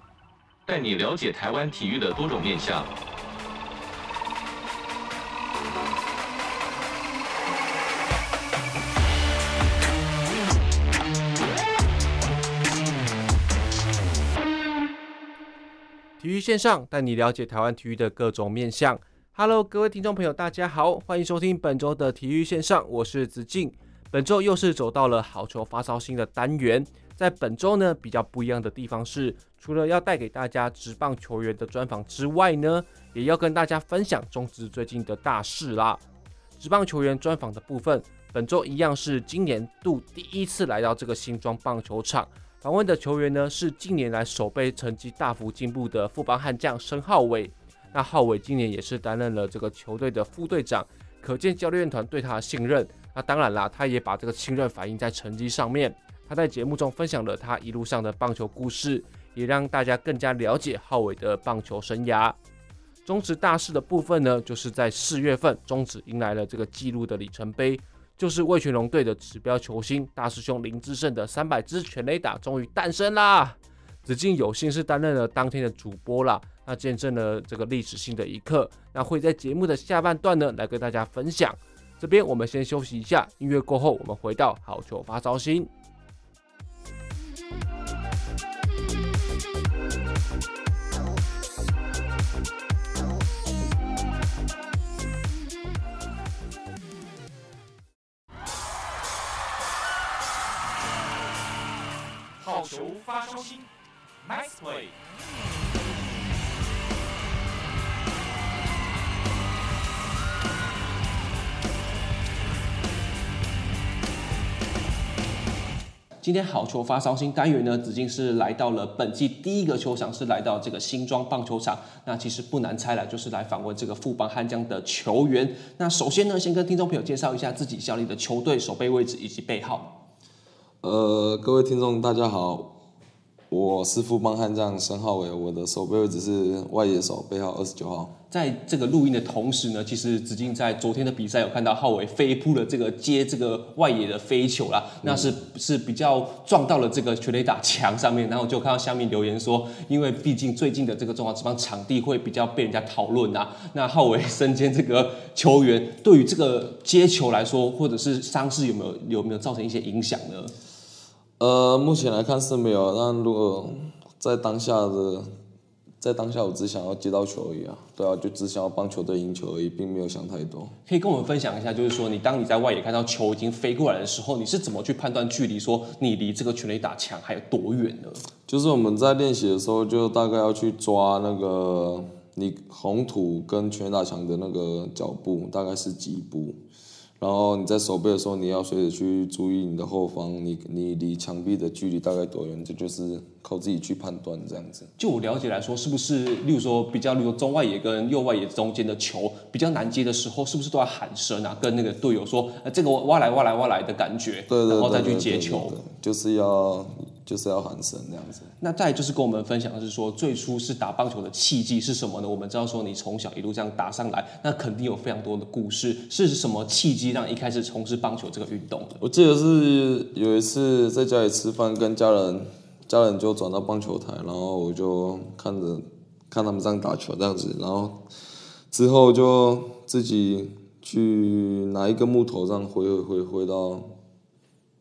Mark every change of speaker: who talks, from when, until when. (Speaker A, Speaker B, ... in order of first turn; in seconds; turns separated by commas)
Speaker A: 0.7-2.9, Speaker B: 16.2-36.0, Speaker B: 36.6-62.4, Speaker B: 63.0-85.7, Speaker C: 102.4-103.7, Speaker C: 104.2-105.0, Speaker B: 116.2-130.0, Speaker D: 130.8-132.8, Speaker D: 133.5-138.2, Speaker B: 138.3-160.5, Speaker D: 145.0-145.3, Speaker D: 161.4-165.3, Speaker D: 166.0-170.8, Speaker B: 170.9-178.2, Speaker D: 178.5-186.6, Speaker D: 187.2-194.9, Speaker B: 195.0-205.8, Speaker D: 204.5-208.5, Speaker B: 208.6-219.0, Speaker D: 219.0-228.1, Speaker D: 228.7-233.9